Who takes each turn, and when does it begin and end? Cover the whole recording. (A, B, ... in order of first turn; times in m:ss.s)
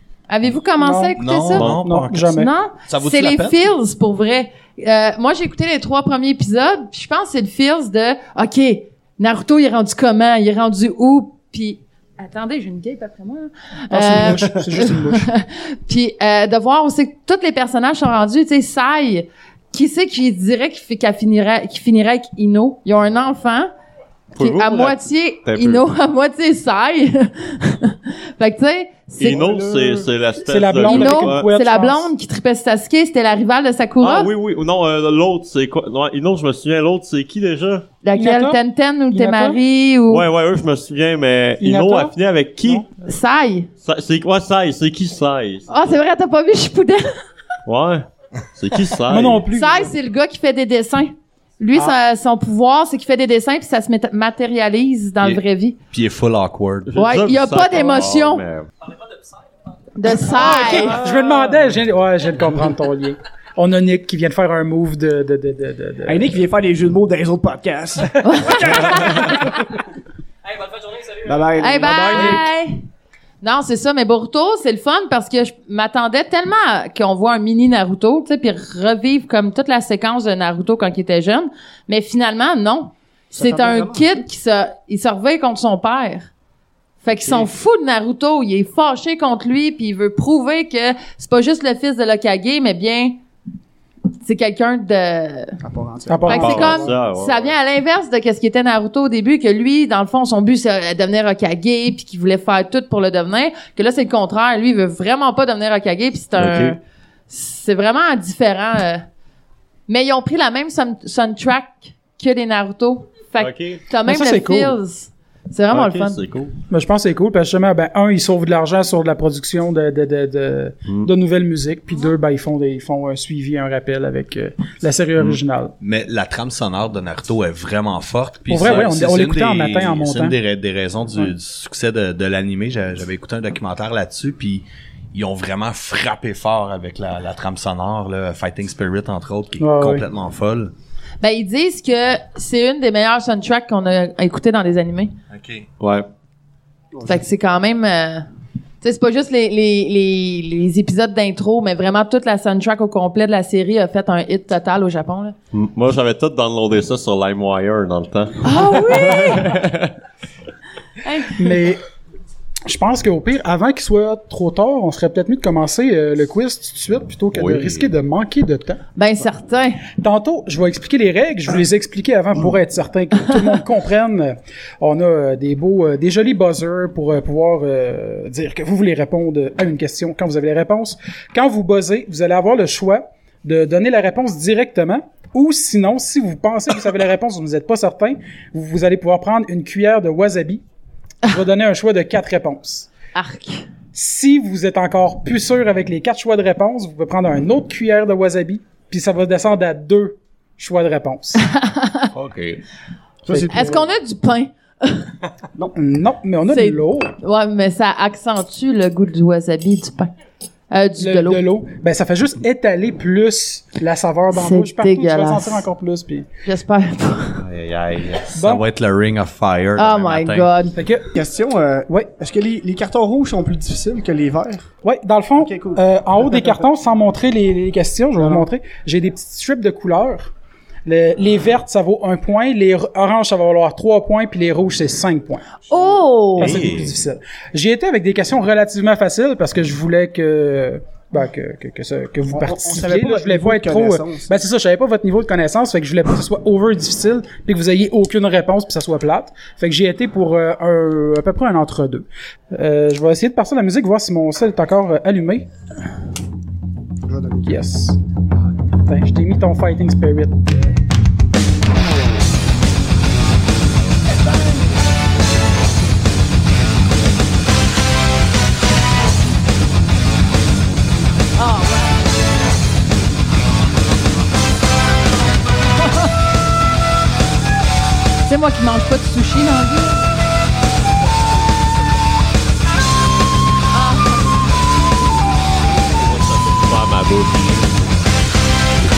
0:00.3-0:01.7 A
0:00.8-0:02.5 B
0:01.2-0:02.3 C
0:02.2-0:23.7 A
0:02.9-0:03.6 C
0:13.9-0:15.3 B
0:24.3-0:29.6 A
0:24.4-0:25.9 D
0:29.2-0:31.5 D
0:29.4-0:32.1 B
0:30.8-0:34.3 A
0:34.0-0:37.9 D
0:38.0-0:40.3 A
0:38.2-0:38.6 B
0:39.1-0:39.6 B
0:40.1-0:42.9 D
0:41.6-0:42.8 B
0:43.0-0:43.7 A
0:43.8-0:45.7 D
0:45.7-0:47.1 A
0:47.7-0:49.4 D
0:49.0-0:50.0 B
0:49.5-0:55.8 A
0:55.2-0:57.0 C
0:56.9-0:58.7 D
0:57.0-0:58.4 A
1:00.0-1:01.0 A
1:00.3-1:06.3 B
1:00.6-1:01.6 D
1:06.1-1:09.5 E
1:08.2-1:09.6 A
1:11.2-1:12.4 E
1:11.6-1:12.8 A
1:11.8-1:12.5 B
1:13.4-1:26.3 A
1:23.3-1:24.0 E
1:27.0-1:33.2 A
1:34.2-1:35.6 A
1:35.6-1:36.5 E
1:36.1-1:37.0 B
1:36.2-1:49.0 A
1:36.3-1:37.6 D
1:46.4-1:46.8 D
1:49.9-1:56.2 A
1:53.4-1:53.8 D
1:54.0-1:54.8 B
1:55.7-1:56.6 D
1:56.7-2:05.7 B
2:05.8-2:20.7 C
2:08.5-2:10.4 B
2:19.6-2:20.1 B
2:21.2-2:25.1 A
2:25.3-2:25.7 C
2:25.8-2:26.1 D
2:26.9-2:27.2 E
2:27.1-2:28.3 A
2:28.8-2:35.4 A
2:35.5-2:39.9 D
2:38.4-2:39.6 A
2:41.0-2:41.6 A
2:41.3-2:41.8 B
2:42.7-2:48.8 B
2:47.4-2:47.9 D
2:49.0-2:49.9 A
2:50.0-3:10.6 B
3:11.3-3:12.9 B
3:13.1-3:13.6 A
3:13.9-3:21.5 B
3:21.4-3:22.1 A
3:22.2-3:22.6 D
3:23.3-3:23.9 E
3:23.3-3:23.8 B
3:23.5-3:25.1 A
3:25.8-3:27.2 B
3:26.5-3:30.1 A
3:30.7-3:31.4 A
3:31.0-3:36.3 B
3:34.3-3:35.7 A
3:36.4-3:37.4 A
3:37.3-3:38.3 D
3:38.3-3:38.6 B
3:38.4-3:40.5 C
3:39.8-3:40.8 A
3:40.8-3:41.1 B
3:41.1-3:44.7 E
3:44.8-3:50.3 B
3:45.4-3:45.8 E
3:48.2-3:48.5 E
3:50.9-4:15.5 B
3:55.7-3:56.6 A
3:56.4-3:56.9 D
4:02.3-4:04.4 E
4:17.1-4:17.6 E
4:17.5-4:18.0 B
4:18.9-4:20.8 B
4:31.4-4:32.1 A
4:38.2-4:40.0 A
4:43.7-4:44.3 A
4:45.8-4:48.1 D